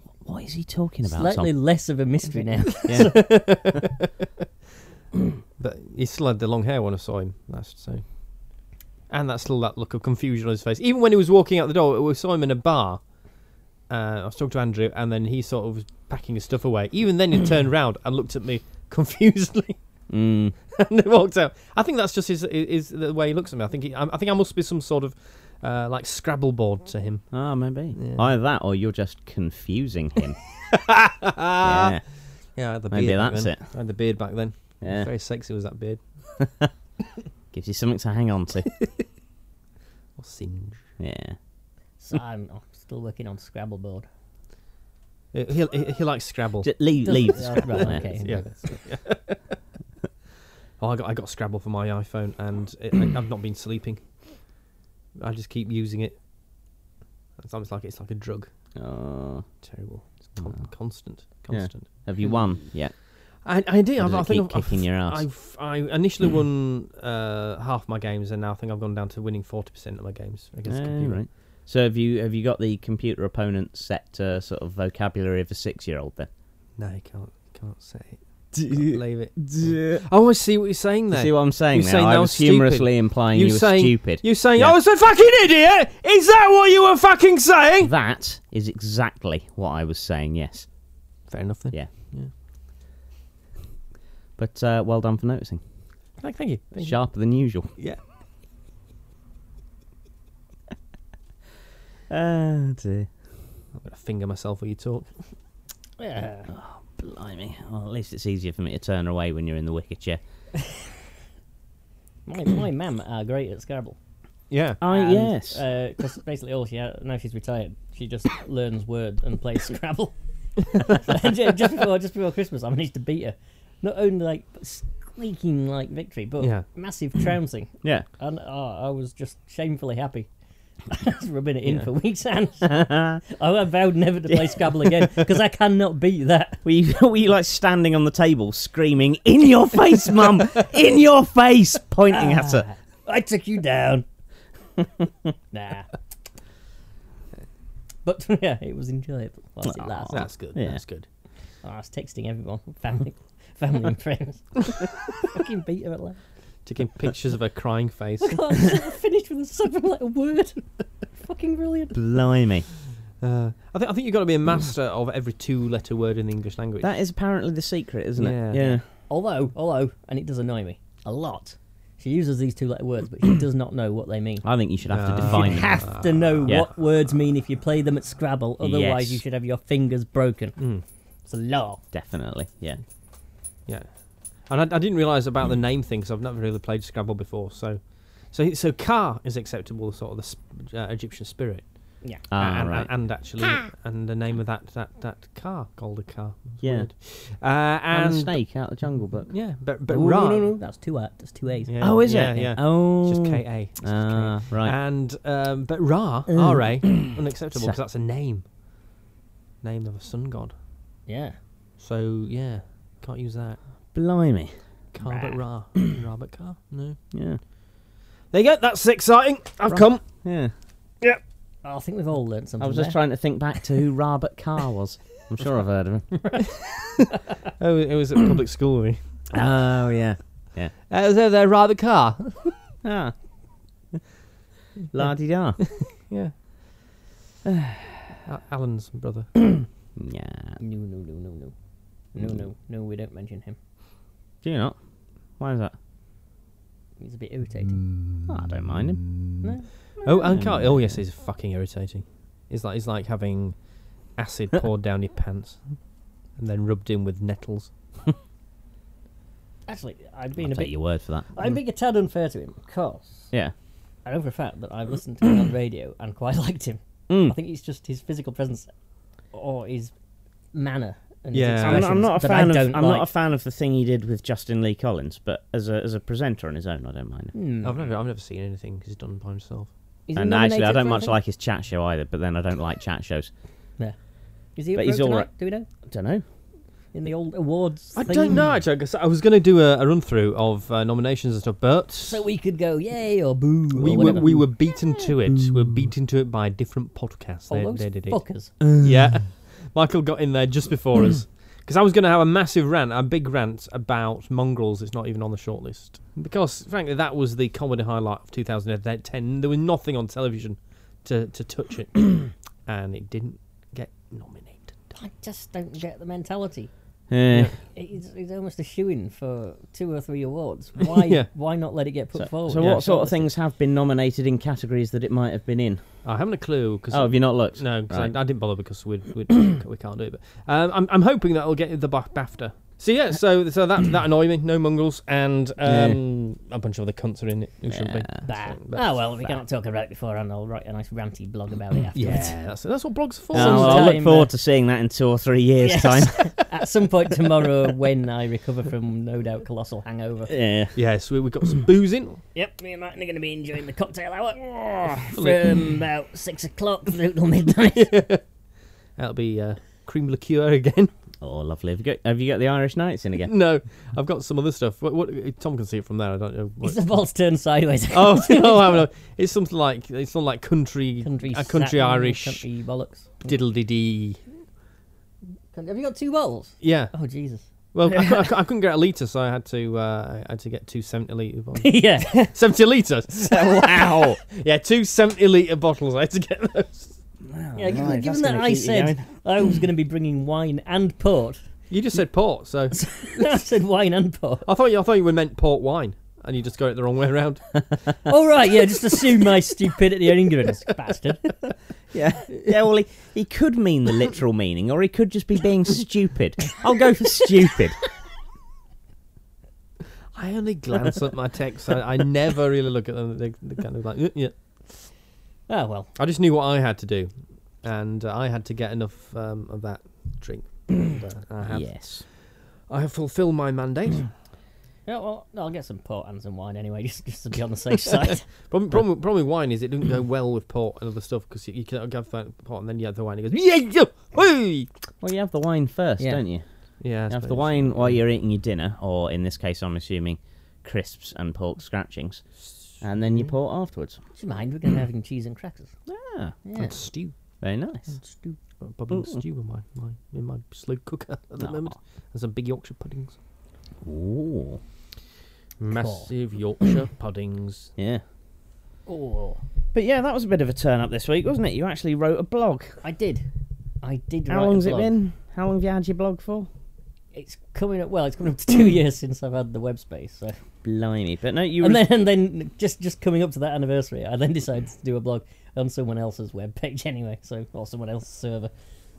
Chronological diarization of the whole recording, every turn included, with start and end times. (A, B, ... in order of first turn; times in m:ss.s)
0:00.2-0:01.5 A
0:01.0-0:03.2 B
0:02.9-0:03.2 A
0:02.9-0:04.1 C
0:05.6-0:08.1 C
0:09.1-0:13.0 C
0:13.9-0:19.8 C
0:20.1-0:20.6 A
0:20.7-0:27.3 C
0:27.3-0:30.4 A
0:28.0-0:28.3 C
0:30.7-0:32.0 C
0:31.6-0:32.0 A
0:32.6-0:36.0 C
0:32.9-0:33.7 A
0:34.8-0:35.1 A
0:36.4-0:36.7 A
0:37.5-0:38.7 A
0:40.2-0:40.8 C
0:41.0-0:41.4 A
0:42.0-0:44.1 B
0:45.3-0:46.7 C
0:46.6-0:48.1 A
0:47.0-0:48.5 B
0:47.7-0:49.6 C
0:50.8-0:54.0 C
0:55.2-0:56.2 C
0:57.4-0:58.5 C
0:58.8-0:59.5 A
0:59.6-1:02.5 C
1:01.5-1:03.0 A
1:03.4-1:11.2 C
1:04.0-1:05.3 A
1:10.7-1:16.3 A
1:16.8-1:27.9 C
1:18.5-1:20.0 A
1:21.1-1:24.8 A
1:27.8-1:30.7 A
1:31.3-1:32.3 C
1:34.4-1:35.6 A
1:36.2-1:37.0 C
1:36.8-1:37.7 A
1:42.1-1:43.1 A
1:43.8-1:45.1 C
1:46.0-1:46.5 B
1:46.5-1:50.2 A
1:52.3-1:54.0 B
1:54.5-1:54.8 C
1:54.8-1:55.6 A
1:54.9-2:10.3 B
2:06.4-2:06.7 C
2:10.9-2:16.6 B
2:12.6-2:13.2 A
2:14.3-2:14.9 A
2:16.6-2:22.7 A
2:22.1-2:24.0 B
2:25.5-2:25.9 B
2:28.0-2:30.2 B
2:29.6-2:30.8 A
2:30.1-2:31.1 C
2:31.6-2:36.2 B
2:36.7-2:38.4 C
2:38.2-2:42.0 B
2:41.9-2:42.7 A
2:43.2-2:47.0 C
2:46.8-2:48.8 A
2:48.2-2:48.7 C
2:49.1-2:54.4 B
2:54.4-2:55.9 A
2:54.9-2:56.6 C
2:55.2-3:00.6 B
2:58.6-2:59.2 A
3:00.6-3:00.8 C
3:01.3-3:01.8 B
3:01.9-3:02.8 A
3:03.7-3:18.4 C
3:12.3-3:12.9 A
3:16.6-3:16.9 A
3:17.9-3:19.3 A
3:19.3-3:20.6 C
3:19.9-3:21.8 B
3:21.7-3:28.4 C
3:21.8-3:24.7 A
3:26.3-3:27.8 A
3:29.6-3:30.5 C
3:31.1-3:31.4 B
3:31.8-3:33.6 C
3:33.9-3:34.6 A
3:34.9-3:37.0 C
3:35.0-3:35.4 B
3:37.1-3:37.4 A
3:38.3-3:40.0 C
3:39.7-3:40.5 A
3:41.6-3:43.0 B
3:42.6-3:46.4 A
3:47.6-3:49.0 C
3:49.3-3:50.7 A
3:50.9-3:52.6 C
3:52.8-3:53.2 A
3:54.9-3:55.6 A
3:55.8-3:56.3 C
3:57.4-3:58.1 A
3:58.3-3:59.3 C
4:00.0-4:00.6 A
4:00.6-4:01.5 B
4:02.1-4:03.6 B
4:04.4-4:04.8 A
4:05.4-4:05.7 A
4:07.0-4:07.8 B
4:07.8-4:09.1 C
4:08.3-4:09.1 A
4:09.4-4:09.7 B
4:10.0-4:13.6 C
4:10.3-4:11.0 A
4:14.2-4:15.6 C
4:16.4-4:17.7 C
4:19.7-4:23.3 B
4:20.4-4:21.3 A
4:24.0-4:28.7 B
4:27.1-4:27.4 A
4:29.3-4:29.9 B
4:30.5-4:33.1 B
4:31.3-4:32.0 C
4:31.6-4:37.3 A
4:37.3-4:37.8 B
4:37.6-4:39.7 C
4:40.1-4:41.2 B
4:40.2-4:43.3 A
4:44.6-4:45.7 B
4:44.8-4:45.3 A
4:45.9-4:46.2 A
4:46.9-4:48.4 B
4:48.0-4:52.2 C
4:52.0-4:54.5 B
4:53.8-4:58.2 C
4:57.5-4:58.5 B
4:58.6-4:58.9 A
4:58.8-5:14.8 C
5:15.0-5:16.7 B
5:17.1-5:17.5 A
5:17.7-5:23.3 B
5:21.0-5:21.3 C
5:22.2-5:25.8 A
5:22.6-5:22.8 C
5:26.0-5:39.0 C
5:26.9-5:28.2 A
5:35.6-5:36.0 A
5:37.7-5:38.2 A
5:38.2-5:42.4 B
5:42.0-5:43.9 C
5:43.3-5:44.3 B
5:43.3-5:46.4 A
5:45.6-5:50.3 B
5:50.3-5:50.7 A
5:50.8-5:52.2 C
5:52.4-5:58.0 B
5:55.1-5:55.5 C
5:57.8-5:58.2 C
5:59.0-6:00.9 C
6:01.2-6:03.3 A
6:03.2-6:06.8 C
6:06.6-6:08.8 B
6:07.9-6:12.4 C
6:11.0-6:13.3 B
6:13.2-6:14.2 C
6:15.5-6:17.4 B
6:16.6-6:17.0 C
6:17.7-6:27.0 C
6:21.6-6:22.3 B
6:23.3-6:24.2 A
6:27.2-6:29.1 A
6:27.6-6:31.4 B
6:31.7-6:32.9 C
6:32.7-6:34.5 B
6:34.5-6:37.6 C
6:38.1-6:41.3 B
6:41.9-6:47.8 A
6:50.2-6:54.3 C
6:55.5-6:55.9 B
6:56.0-6:57.1 C
6:57.6-7:02.1 C
7:01.4-7:02.0 A
7:02.7-7:04.1 C
7:04.9-7:08.3 B
7:08.5-7:14.7 C
7:15.0-7:16.4 A
7:16.8-7:18.0 C
7:17.1-7:22.2 A
7:22.8-7:24.0 A
7:24.2-7:25.7 B
7:25.9-7:26.4 A
7:26.4-7:26.7 B
7:26.6-7:27.1 C
7:27.4-7:28.0 A
7:28.0-7:28.4 B
7:28.6-7:33.2 C
7:28.9-7:29.2 A
7:31.4-7:31.7 A
7:33.8-7:34.6 A
7:35.6-7:37.7 C
7:35.7-7:36.1 B
7:37.8-7:38.0 A
7:38.9-7:39.4 B
7:39.7-7:42.8 A
7:42.8-7:43.3 B
7:43.8-7:44.9 B
7:44.3-7:46.5 A
7:47.1-7:50.4 B
7:50.6-7:51.8 A
7:51.6-7:58.5 B